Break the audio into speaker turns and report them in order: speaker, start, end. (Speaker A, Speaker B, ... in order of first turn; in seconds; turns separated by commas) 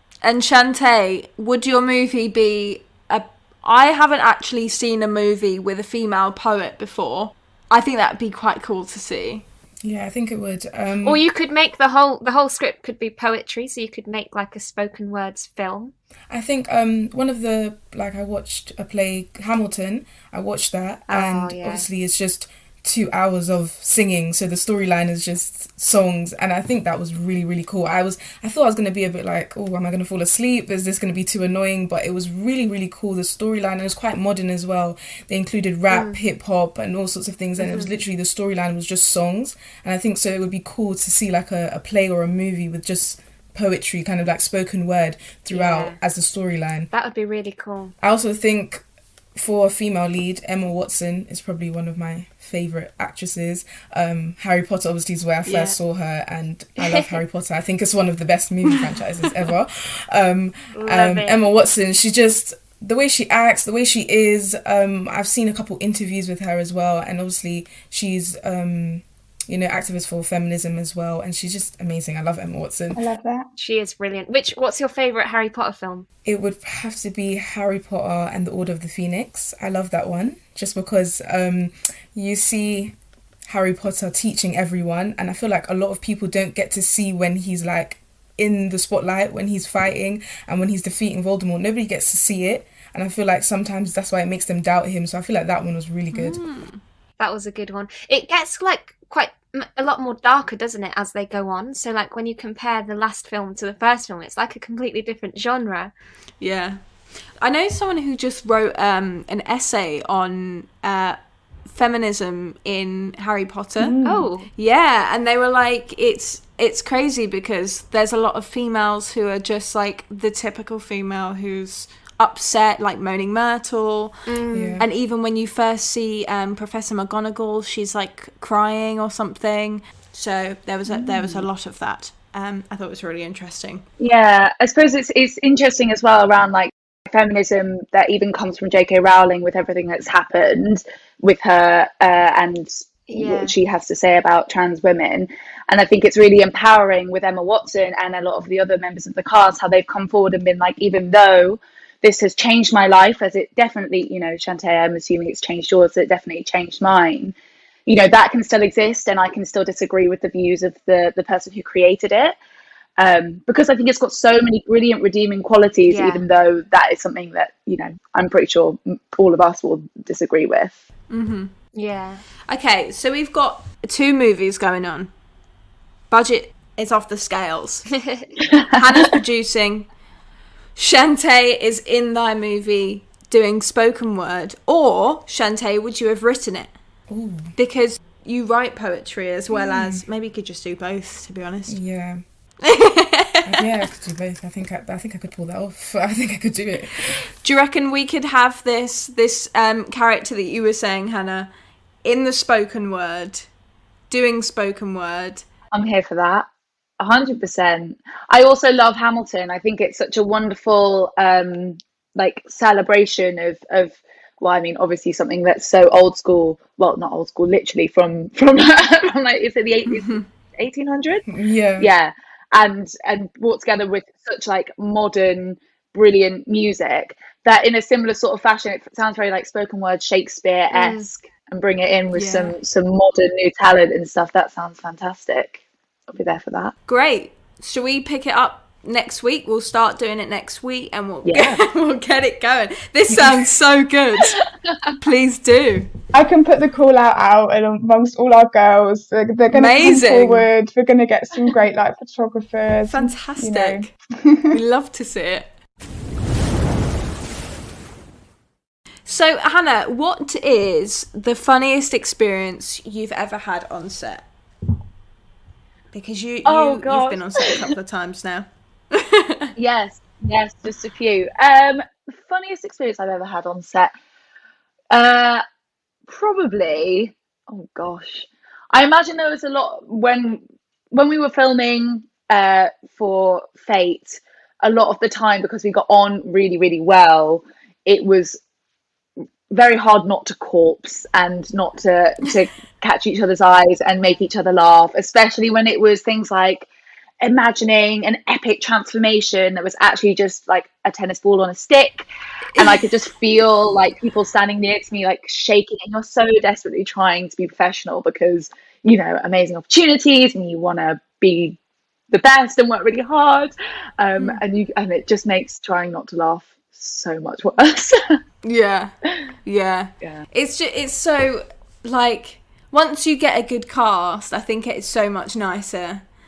Speaker A: 0.2-9.5, Speaker B: 9.8-11.2, Speaker C: 11.0-15.9, Speaker B: 16.3-46.9, Speaker C: 21.1-21.9, Speaker C: 35.9-36.2, Speaker C: 37.6-37.9, Speaker C: 45.5-46.0, Speaker C: 46.9-47.9, Speaker B: 48.0-48.8, Speaker B: 49.4-73.0, Speaker A: 55.5-55.8, Speaker C: 56.8-57.2, Speaker C: 60.7-61.4, Speaker D: 73.0-73.5, Speaker C: 73.6-76.1, Speaker B: 76.2-96.4, Speaker A: 96.1-96.8, Speaker C: 97.2-105.9, Speaker A: 106.4-106.8, Speaker A: 107.4-114.0, Speaker D: 113.8-114.2, Speaker C: 114.0-114.5, Speaker A: 114.5-124.3, Speaker C: 124.3-124.8, Speaker B: 124.5-124.9, Speaker A: 124.8-133.9, Speaker E: 134.0-157.3, Speaker C: 143.1-143.6, Speaker E: 157.9-162.4, Speaker E: 163.0-170.8, Speaker C: 165.9-166.3, Speaker A: 171.1-171.5, Speaker C: 171.7-172.2, Speaker A: 172.5-175.1, Speaker A: 176.1-177.9, Speaker E: 178.5-179.0, Speaker A: 178.7-179.9, Speaker A: 180.8-186.7, Speaker B: 187.1-187.5, Speaker A: 187.6-191.8, Speaker B: 189.5-190.0, Speaker B: 191.7-192.2, Speaker A: 192.6-193.8, Speaker B: 193.4-197.3, Speaker A: 197.3-201.5, Speaker A: 202.0-203.5, Speaker A: 204.1-205.5, Speaker E: 205.7-206.5, Speaker E: 207.0-221.3, Speaker A: 219.9-220.3, Speaker B: 221.3-221.9, Speaker E: 221.8-236.7, Speaker C: 230.7-231.1, Speaker A: 232.1-232.6, Speaker A: 236.9-244.4, Speaker E: 241.2-241.6, Speaker E: 243.1-243.4, Speaker E: 244.2-244.9, Speaker A: 245.0-245.9, Speaker D: 246.1-254.6, Speaker A: 249.5-250.5, Speaker A: 252.9-253.9, Speaker A: 254.5-255.5, Speaker A: 259.1-264.3, Speaker A: 265.9-269.5, Speaker E: 266.4-267.7, Speaker E: 269.6-273.9, Speaker E: 274.9-275.4, Speaker E: 276.1-288.4, Speaker E: 289.5-296.7, Speaker E: 297.2-302.1, Speaker A: 302.6-302.9, Speaker E: 302.6-311.6, Speaker E: 312.1-318.2, Speaker A: 318.4-326.0